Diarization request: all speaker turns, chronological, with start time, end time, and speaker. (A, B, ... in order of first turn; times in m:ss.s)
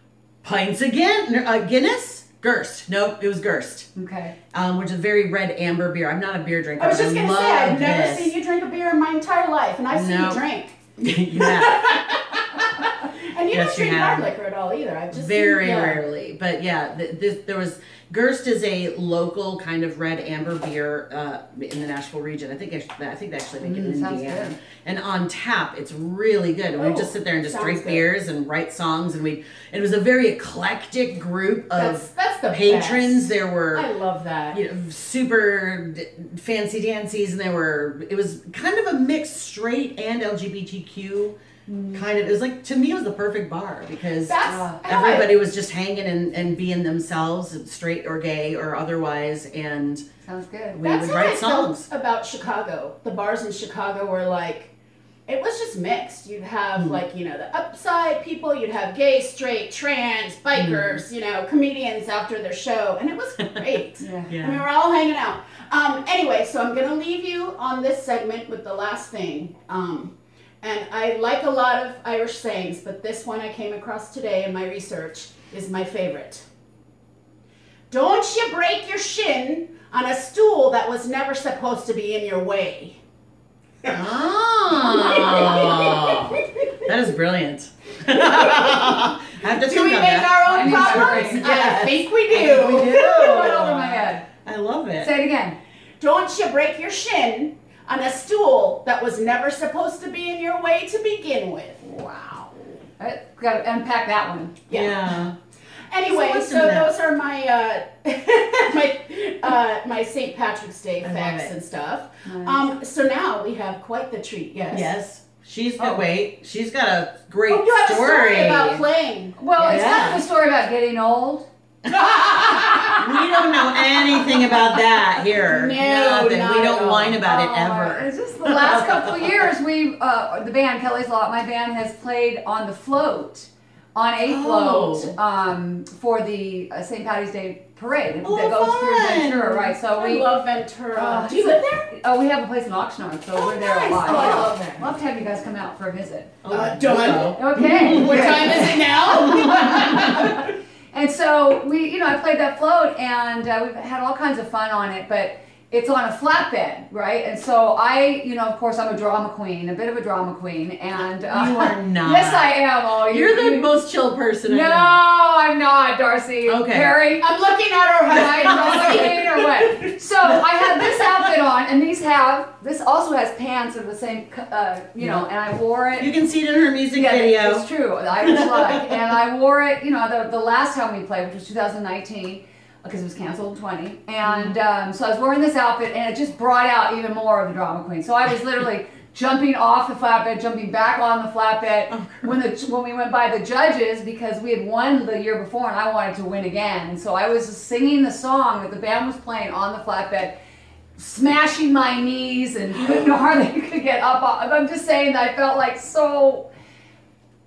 0:00.4-0:03.9 A
0:03.9-0:04.4 B
0:04.5-0:08.3 A
0:06.8-0:10.8 C
0:09.9-0:10.4 A
0:11.0-0:12.2 A
0:11.3-0:16.0 C
0:13.5-0:14.3 A
0:15.1-0:33.9 A
0:23.6-0:24.6 B
0:26.8-0:28.0 C
0:31.7-0:34.6 C
0:34.5-0:41.4 A
0:41.7-0:42.0 B
0:41.9-0:50.0 A
0:44.3-0:45.3 C
0:44.4-0:44.8 B
0:50.2-0:50.8 B
0:50.7-0:51.8 A
0:50.8-0:54.7 C
0:55.3-1:16.4 C
1:00.6-1:01.0 A
1:04.0-1:04.4 B
1:04.3-1:04.6 A
1:17.9-1:23.0 C
1:23.8-1:35.1 A
1:24.8-1:26.5 C
1:28.2-1:33.6 C
1:30.4-1:31.4 B
1:32.7-1:34.2 B
1:35.0-1:35.6 B
1:36.0-1:41.8 C
1:41.8-1:44.6 B
1:44.7-1:45.2 C
1:44.7-1:45.3 A
1:45.9-1:54.9 C
1:46.1-1:46.9 A
1:51.0-1:51.5 A
1:52.2-1:52.6 B
1:54.7-1:58.8 A
1:57.5-1:59.8 C
1:59.4-2:03.0 B
1:59.6-2:00.2 A
2:02.1-2:03.0 C
2:02.9-2:09.5 A
2:05.4-2:07.2 C
2:07.2-2:20.3 B
2:14.2-2:15.1 A
2:18.2-2:19.7 A
2:19.9-2:21.9 C
2:20.9-2:26.3 B
2:23.4-2:24.8 C
2:26.4-2:30.0 A
2:26.5-2:30.5 C
2:27.3-2:43.7 B
2:41.3-2:42.5 A
2:43.1-2:45.0 A
2:44.4-2:47.2 B
2:46.4-2:47.0 A
2:47.2-2:49.2 C
2:48.1-2:56.1 B
2:48.1-2:49.2 A
2:55.0-2:55.2 A
2:56.0-2:57.6 A
2:56.9-3:20.3 B
2:58.2-2:58.9 A
3:04.2-3:04.6 A
3:11.9-3:12.4 A
3:21.0-3:26.5 B